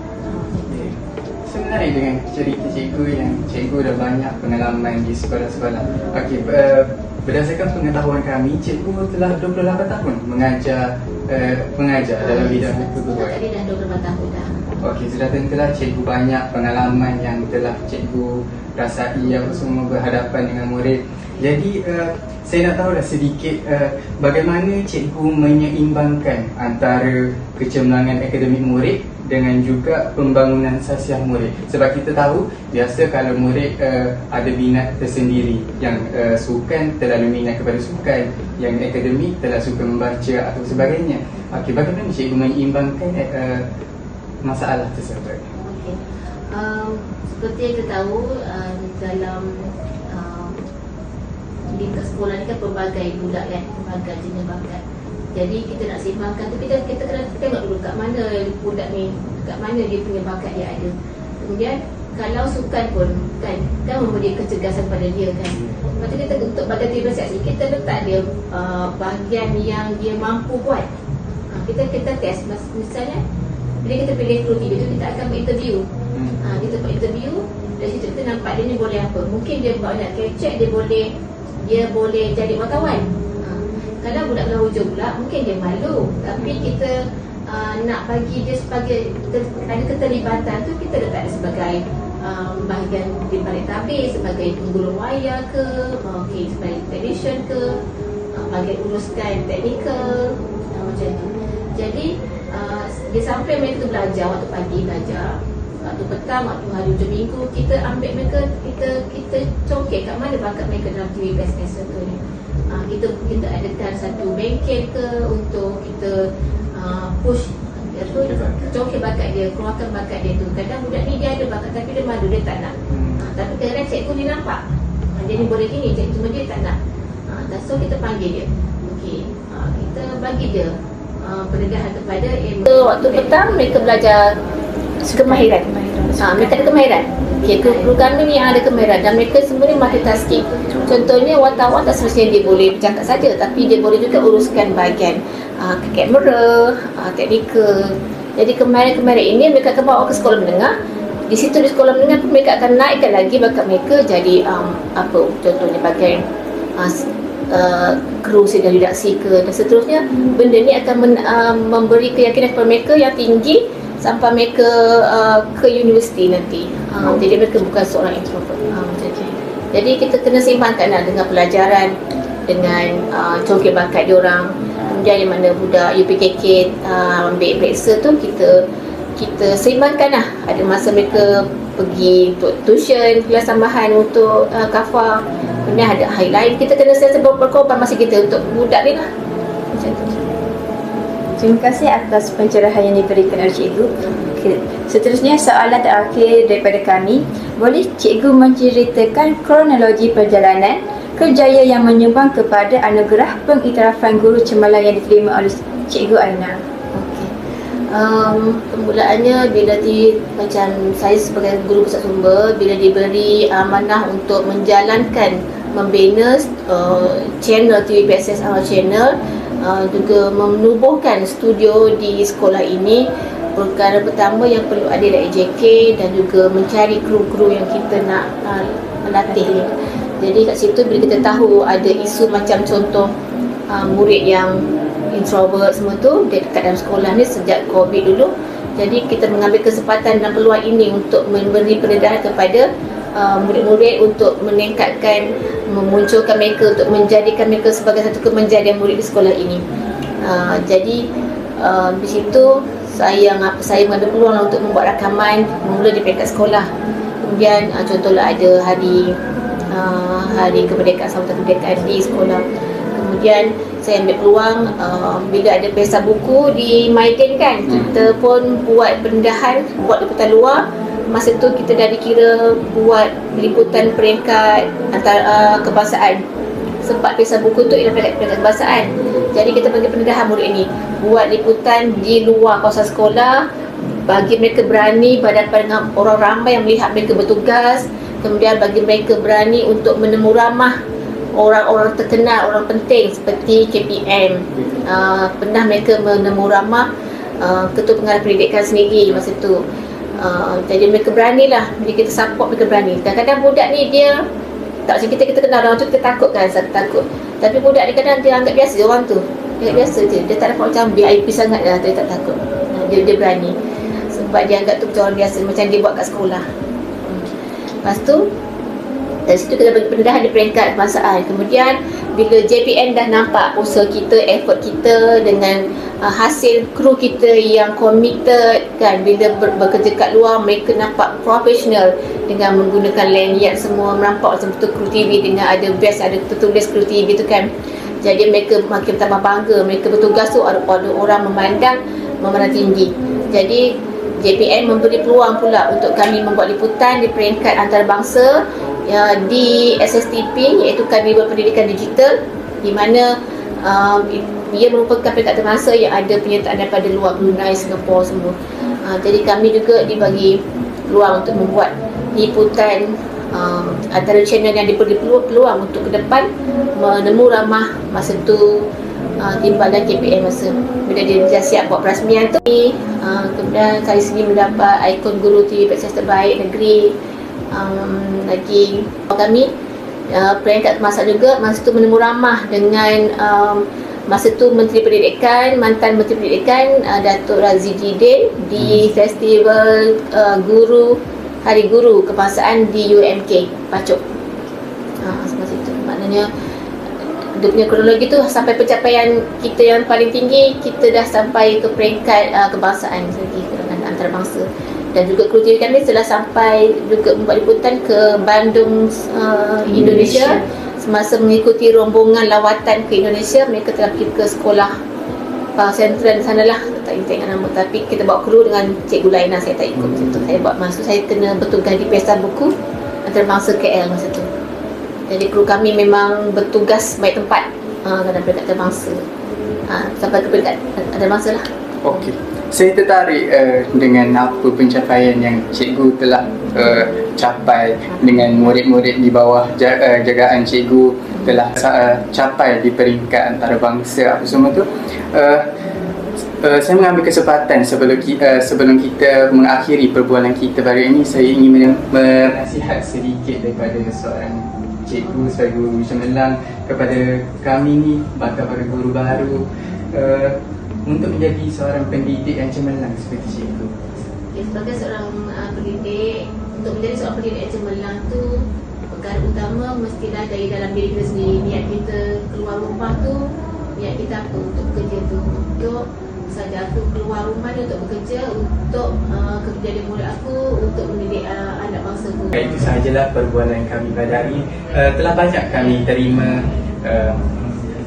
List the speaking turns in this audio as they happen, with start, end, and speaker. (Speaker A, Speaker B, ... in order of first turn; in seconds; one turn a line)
Speaker A: 0.3-0.7
Speaker B: 0.7-13.4
Speaker A: 12.2-14.6
Speaker B: 14.8-43.6
Speaker A: 19.4-19.7
Speaker B: 44.4-45.5
Speaker A: 45.6-46.0
Speaker A: 46.5-50.6
Speaker A: 51.7-54.8
Speaker A: 55.4-70.9
Speaker A: 71.5-73.2
Speaker A: 73.8-75.9
Speaker B: 76.1-76.4
Speaker A: 76.4-87.0
Speaker A: 87.5-97.7
Speaker A: 98.3-116.2
Speaker A: 116.7-134.4
Speaker B: 122.9-123.2
Speaker A: 135.0-150.7
Speaker C: 135.1-136.7
Speaker A: 151.3-156.2
Speaker A: 156.8-171.9
Speaker A: 172.5-178.6
Speaker A: 179.2-189.1
Speaker A: 189.7-190.2
Speaker C: 191.4-206.6
Speaker A: 206.9-207.3
Speaker A: 207.9-233.1
Speaker A: 233.7-234.6
Speaker A: 235.1-249.6
Speaker A: 250.2-251.0
Speaker A: 251.6-256.7
Speaker A: 257.2-259.2
Speaker A: 259.7-262.4
Speaker A: 262.9-276.2
Speaker A: 276.8-283.4
Speaker A: 284.1-290.8
Speaker A: 291.4-296.9
Speaker A: 297.4-299.6
Speaker A: 300.2-304.2
Speaker A: 304.9-313.6
Speaker A: 314.1-316.4
Speaker A: 317.8-318.3
Speaker A: 319.3-337.5
Speaker A: 338.0-343.7
Speaker A: 344.2-353.1
Speaker A: 353.6-368.7
Speaker A: 369.2-376.9
Speaker A: 377.5-379.5
Speaker A: 380.1-394.0
Speaker A: 395.0-396.3
Speaker A: 397.4-414.7
Speaker B: 409.8-410.3
Speaker A: 415.6-422.5
Speaker A: 423.1-424.3
Speaker A: 425.1-429.1
Speaker A: 429.7-431.4
Speaker B: 431.8-445.5
Speaker B: 446.4-464.0
Speaker A: 464.3-482.5
Speaker B: 482.3-487.3